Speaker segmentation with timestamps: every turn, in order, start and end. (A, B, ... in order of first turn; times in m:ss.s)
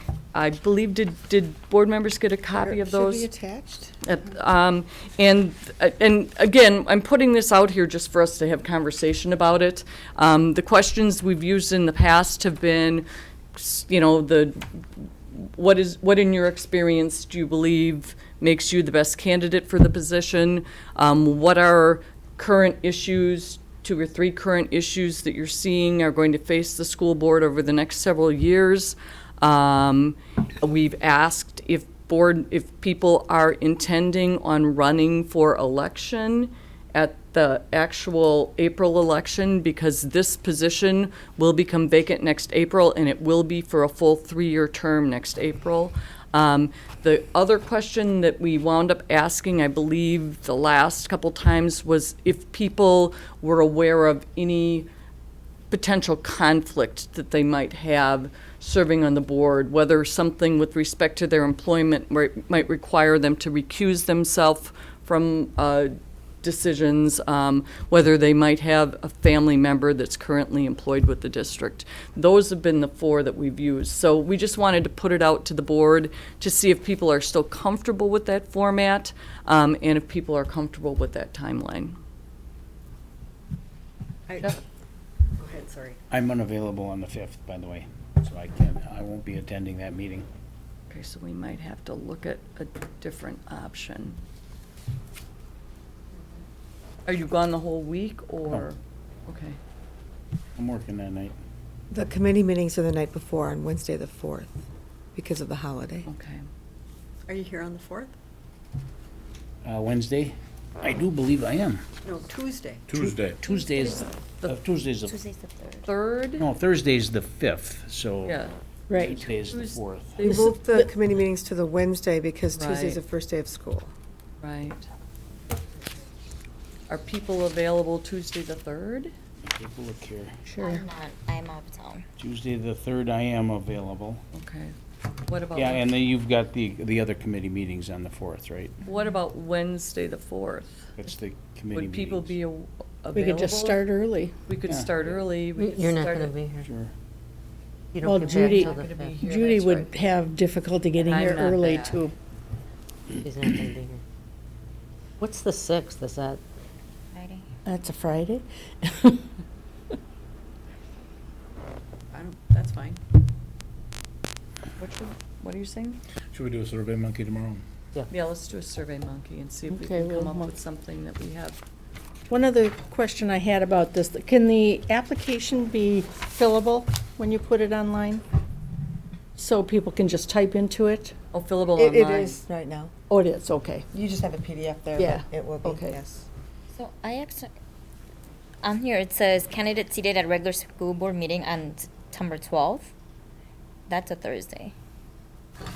0:00.3-0:03.3 A
0:02.6-0:04.0 B
0:04.0-0:54.9 A
0:55.7-1:22.0 A
1:24.3-1:24.6 C
1:25.4-1:26.0 C
1:26.1-1:30.3 D
1:30.9-1:34.2 A
1:37.1-1:39.6 A
1:40.6-1:41.4 D
1:41.9-1:44.6 B
1:45.2-1:46.1 B
1:46.1-1:46.4 A
1:47.3-1:48.2 C
1:49.6-1:51.8 D
1:52.0-1:53.0 C
1:52.9-1:53.4 E
1:53.4-1:55.2 D
1:53.8-1:54.6 A
1:55.1-1:55.9 F
1:55.9-1:56.5 A
1:56.4-2:00.2 D
1:58.2-1:58.5 A
1:58.9-1:59.2 G
1:59.5-2:00.5 A
2:00.2-2:00.9 G
2:00.2-2:03.9 B
2:02.6-2:03.0 A
2:04.4-2:04.9 A
2:06.9-2:09.1 A
2:09.4-2:10.4 D
2:10.5-2:10.8 G
2:10.6-2:12.0 F
2:12.2-2:14.2 D
2:14.3-2:14.8 A
2:15.3-2:15.9 A
2:15.6-2:18.8 D
2:18.8-2:20.9 A
2:21.0-2:22.4 D
2:21.7-2:23.8 A
2:23.1-2:24.4 G
2:24.5-2:26.4 A
2:24.7-2:24.9 D
2:25.6-2:26.7 H
2:26.6-2:26.9 D
2:27.9-2:29.1 H
2:28.0-2:32.1 G
2:28.4-2:30.1 A
2:31.0-2:32.0 A
2:33.2-2:34.0 H
2:35.2-2:36.4 H
2:37.1-2:37.5 F
2:37.6-2:39.3 G
2:42.1-2:43.0 C
2:44.8-2:46.0 A
2:46.3-2:47.6 E
2:48.1-2:51.6 A
2:49.7-2:50.5 G
2:52.3-2:58.2 G
2:59.4-3:01.1 G
3:01.3-3:02.4 A
3:01.8-3:02.9 B
3:03.1-3:03.9 G
3:03.9-3:06.3 B
3:05.0-3:06.0 G
3:06.7-3:07.5 F
3:08.6-3:12.9 F
3:13.9-3:14.7 F